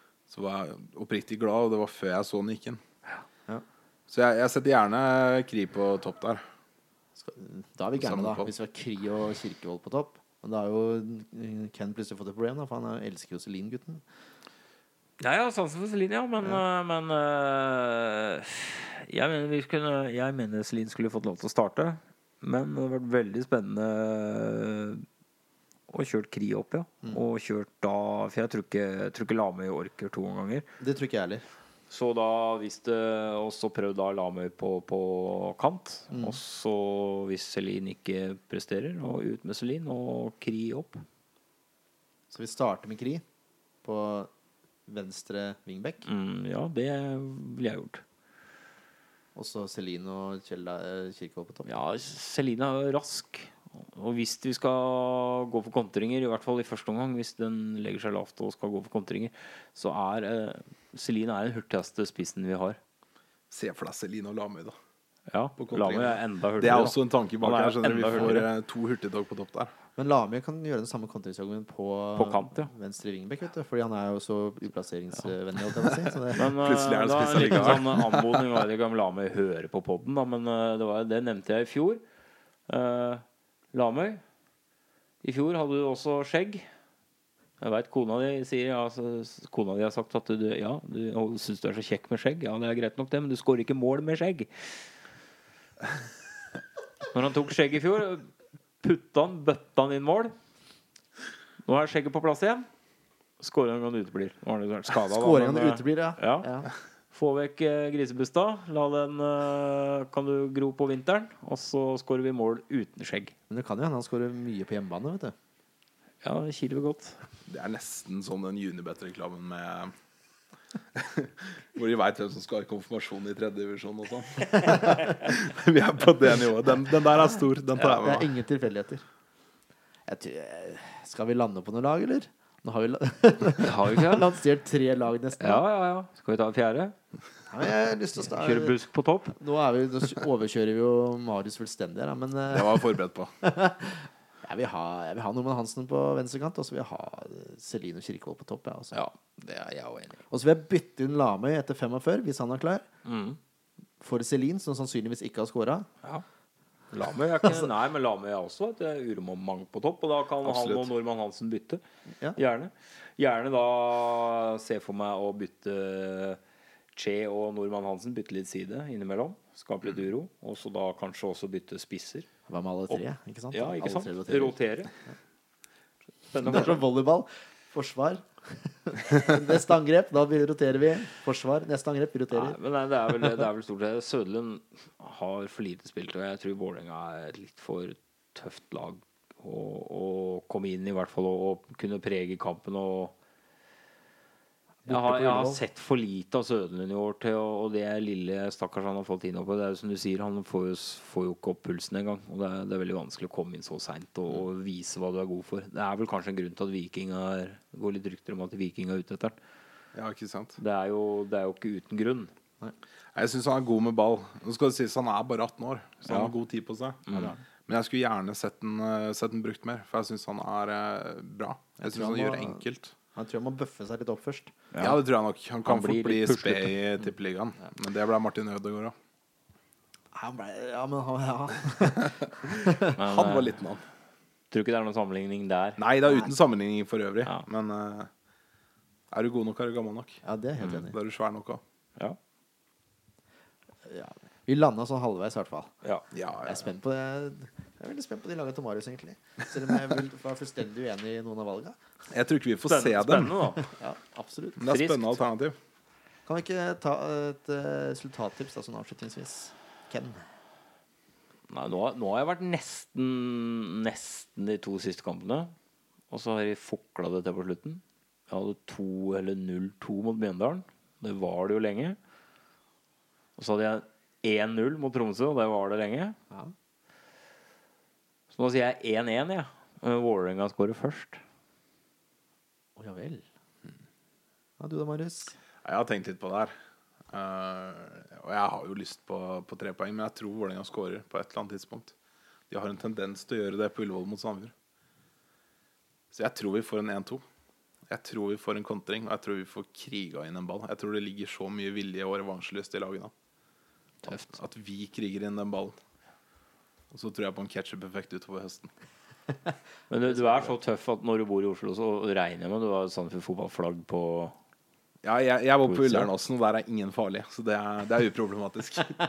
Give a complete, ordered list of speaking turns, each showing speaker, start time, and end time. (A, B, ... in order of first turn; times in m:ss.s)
0:00.3-0:02.8 A
0:04.1-0:06.4 A
0:07.2-0:14.0 B
0:08.0-0:08.5 A
0:15.2-0:25.0 C
0:25.9-0:30.7 C
0:30.8-0:31.4 B
0:31.9-0:41.0 C
0:36.1-0:36.4 B
0:42.3-0:43.2 B
0:43.8-0:44.3 B
0:44.9-0:46.1 B
0:46.0-0:48.0 C
0:49.4-0:51.8 B
0:51.6-1:02.8 C
1:03.5-1:04.8 A
1:05.3-1:08.5 C
1:05.6-1:09.7 A
1:10.0-1:16.5 B
1:12.2-1:12.7 C
1:16.3-1:18.5 A
1:16.3-1:22.0 C
1:22.7-1:24.2 C
1:25.2-1:26.7 C
1:27.6-1:34.9 C
1:37.1-1:40.3 C
1:41.6-1:42.7 C
1:43.4-1:46.5 C
1:45.0-1:46.7 B
1:47.1-1:53.4 C
1:53.5-1:55.4 B
1:56.2-1:57.2 C
1:57.5-1:59.9 A
2:01.0-2:08.4 A
2:07.8-2:09.0 B
2:10.0-2:15.6 B
2:13.6-2:14.3 C
2:15.4-2:17.0 C
2:17.5-2:18.8 B
2:18.2-2:19.4 C
2:19.4-2:29.0 B
2:22.5-2:23.3 A
2:28.9-2:30.2 C
2:30.3-2:32.9 B
2:33.0-2:33.4 C
2:34.0-2:35.9 B
2:36.9-2:41.8 C
2:37.4-2:37.7 B
2:40.4-2:40.9 A
2:42.4-2:46.4 C
2:47.0-2:52.3 C
2:52.5-2:54.6 B
2:53.5-2:54.9 C
2:56.3-2:56.8 C
2:56.4-3:02.6 B
3:02.3-3:13.2 C
3:14.8-3:15.6 B
3:14.9-3:29.4 C
3:29.9-3:30.6 A
3:30.6-3:32.3 C
3:33.2-3:37.1 A
3:36.1-3:36.3 C
3:37.1-3:37.4 C
3:37.7-3:42.9 A
3:41.8-3:42.6 B
3:43.1-3:44.6 B
3:44.7-3:45.0 C
3:44.8-3:49.0 A
3:45.6-3:46.7 C
3:50.1-3:52.9 B
3:53.0-3:53.6 C
3:53.0-3:53.8 A
3:54.5-3:55.8 C
3:55.8-3:58.1 A
3:59.1-4:00.2 A
4:00.2-4:01.0 B
4:00.7-4:01.6 A
4:03.8-4:05.8 B
4:06.1-4:06.7 A
4:06.4-4:11.8 B
4:12.1-4:13.5 A
4:12.7-4:13.7 C
4:13.6-4:14.6 B
4:14.6-4:15.6 A
4:14.7-4:15.2 C
4:16.3-4:20.3 B
4:21.5-4:25.5 C
4:26.1-4:32.0 C
4:33.4-4:36.2 C
4:38.3-4:41.2 C
4:42.8-4:43.3 B
4:44.6-4:45.4 B
4:45.6-4:46.5 A
4:47.1-4:51.9 A
4:52.5-4:54.5 A
4:56.1-4:57.2 A
4:57.9-5:03.1 A
5:04.0-5:04.3 C
5:04.3-5:05.8 A
5:06.9-5:08.7 A
5:09.9-5:14.4 C
5:10.1-5:10.6 B
5:15.0-5:19.0 A
5:15.6-5:16.1 C